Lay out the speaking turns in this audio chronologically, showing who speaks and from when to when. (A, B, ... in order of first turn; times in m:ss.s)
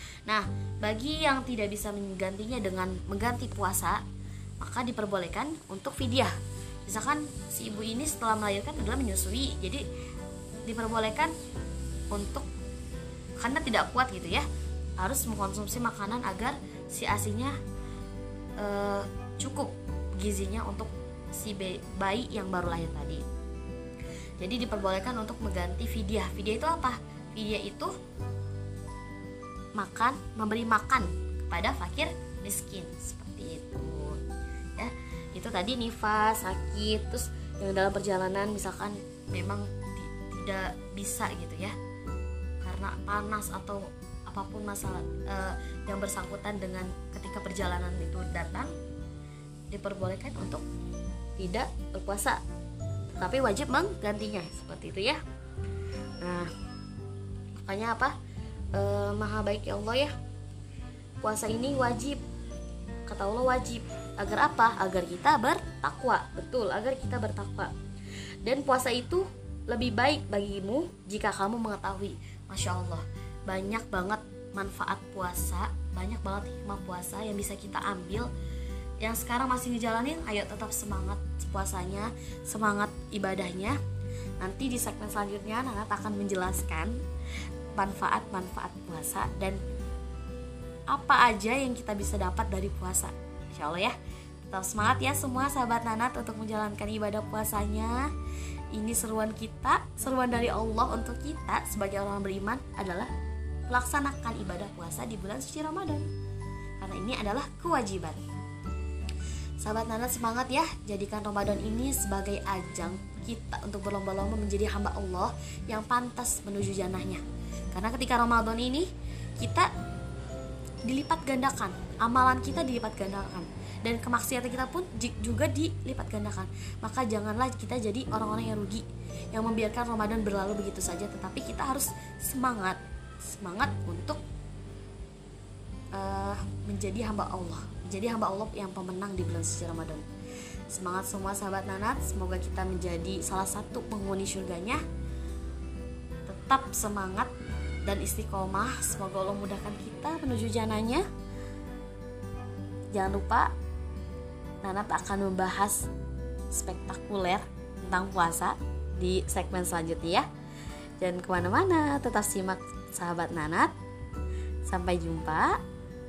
0:00.2-0:04.0 A
0:04.6-0:06.3 A
0:06.8-0:09.8 A
0:10.6-0:11.3 A
0:12.1-0:12.4 A
0:13.4-0:14.4 A
0:15.0-0:17.5 A
0:18.6-0:23.2 A
0:24.4-0:27.9 A
0:29.8-0:34.2 A
0:34.8-0:41.7 A
0:42.6-0:48.7 A
0:49.7-0:50.6 A
0:51.4-0:52.4 A
0:53.2-0:55.2 A
0:56.2-0:56.5 A
0:57.5-0:58.1 A
0:58.7-1:00.1 A
1:01.2-1:02.2 A
1:03.1-1:07.7 A
1:08.4-1:18.3 A
1:19.0-1:23.8 A
1:24.4-1:27.0 A
1:27.8-1:29.6 A
1:30.9-1:38.1 A
1:38.7-1:43.1 A
1:43.7-1:46.1 A
1:46.8-1:48.2 A
1:49.6-1:59.7 A
2:00.8-2:14.2 A
2:15.9-2:20.0 A
2:20.7-2:24.8 A
2:26.3-2:27.3 A
2:27.8-2:31.0 A
2:32.9-2:33.5 A
2:34.6-2:35.9 A
2:36.5-2:40.3 A
2:41.0-2:43.7 A
2:44.6-2:45.6 A